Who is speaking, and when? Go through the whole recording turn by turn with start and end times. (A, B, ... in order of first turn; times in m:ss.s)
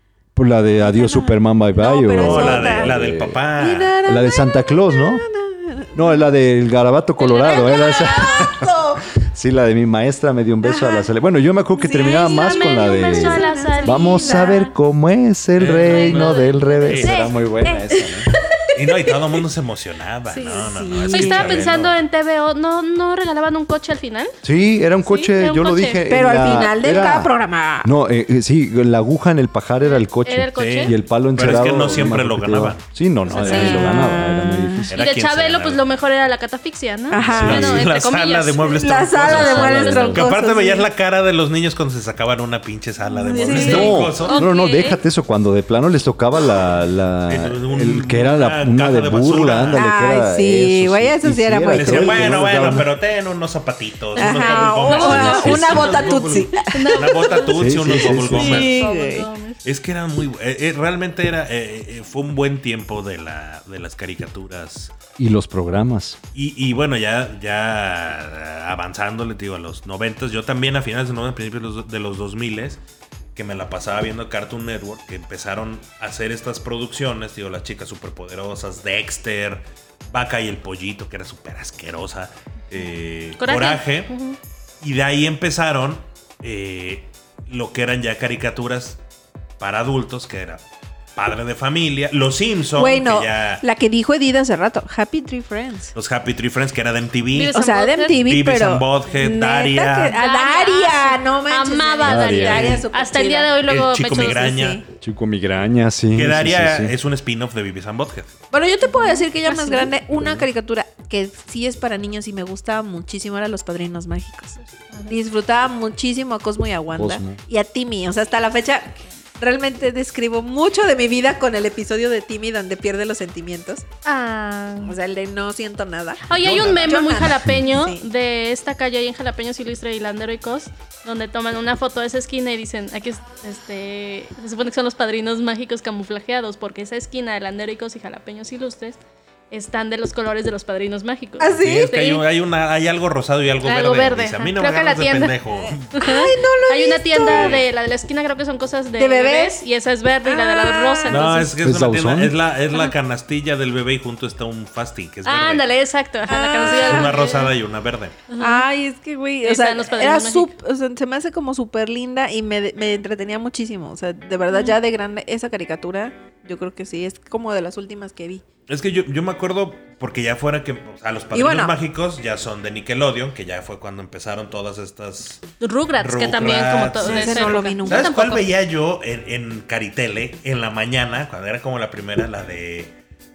0:00.4-0:03.4 A
0:00.8-0:02.9 B
0:02.2-0:03.9 C
0:03.6-0:06.2 B
0:04.0-0:05.2 A
0:05.9-0:18.3 A
0:07.2-0:08.6 D
0:07.5-0:09.1 B
0:10.6-0:11.1 B
0:11.8-0:14.7 B
0:11.8-0:14.7 D
0:15.6-0:17.3 C
0:15.8-0:17.3 D
0:17.0-0:19.2 B
0:18.7-0:22.0 C
0:20.3-0:24.4 D
0:20.5-0:21.7 B
0:24.4-0:27.3 A
0:25.0-0:26.1 D
0:26.1-0:27.9 B
0:27.8-0:34.9 A
0:29.8-0:31.0 D
0:30.6-0:32.8 C
0:33.3-0:34.1 D
0:33.3-0:34.9 B
0:34.9-0:35.8 C
0:34.9-0:40.3 D
0:37.1-0:37.6 B
0:37.2-0:44.5 C
0:37.3-0:37.8 A
0:38.7-0:40.9 B
0:39.4-0:40.3 A
0:43.2-0:45.0 D
0:43.3-0:44.0 B
0:43.5-0:52.9 A
0:47.3-0:49.8 C
0:49.7-0:52.3 B
0:51.7-0:58.8 C
0:54.2-0:57.4 B
0:54.2-0:59.6 D
0:54.9-0:56.1 A
0:57.5-0:58.7 A
0:58.3-0:59.3 B
0:59.6-1:04.9 C
1:05.2-1:06.2 A
1:06.3-1:12.8 C
1:13.4-1:24.1 C
1:23.4-1:24.4 D
1:24.8-1:29.0 C
1:29.6-1:30.6 C
1:31.2-1:33.6 C
1:32.8-1:35.9 B
1:36.0-1:37.6 C
1:37.3-1:38.2 D
1:37.5-1:43.5 B
1:38.1-1:40.2 C
1:40.1-1:44.6 D
1:42.0-1:42.8 A
1:43.7-1:44.9 C
1:44.2-1:44.8 B
1:45.0-1:46.9 A
1:46.1-1:48.4 C
1:48.5-2:03.9 B
1:48.8-1:49.9 D
1:50.1-1:50.5 A
1:56.9-1:57.4 A
2:04.0-2:05.0 D
2:04.8-2:08.1 B
2:06.3-2:19.0 D
2:06.3-2:07.1 C
2:19.5-2:22.2 D
2:21.4-2:21.9 B
2:21.6-2:26.1 C
2:23.6-2:25.4 D
2:25.9-2:31.5 D
2:26.0-2:27.6 B
2:27.2-2:27.7 C
2:29.0-2:29.6 B
2:30.2-2:31.3 B
2:31.1-2:35.7 C
2:31.6-2:32.4 A
2:35.2-2:37.5 D
2:36.3-2:37.2 B
2:36.6-2:38.2 C
2:38.3-2:38.6 D
2:38.4-2:48.4 B
2:39.4-2:40.5 D
2:44.5-2:44.8 D
2:48.7-2:55.4 C
2:51.3-2:51.8 B
2:55.6-2:58.5 D
2:56.0-3:03.0 C
2:57.0-2:58.1 B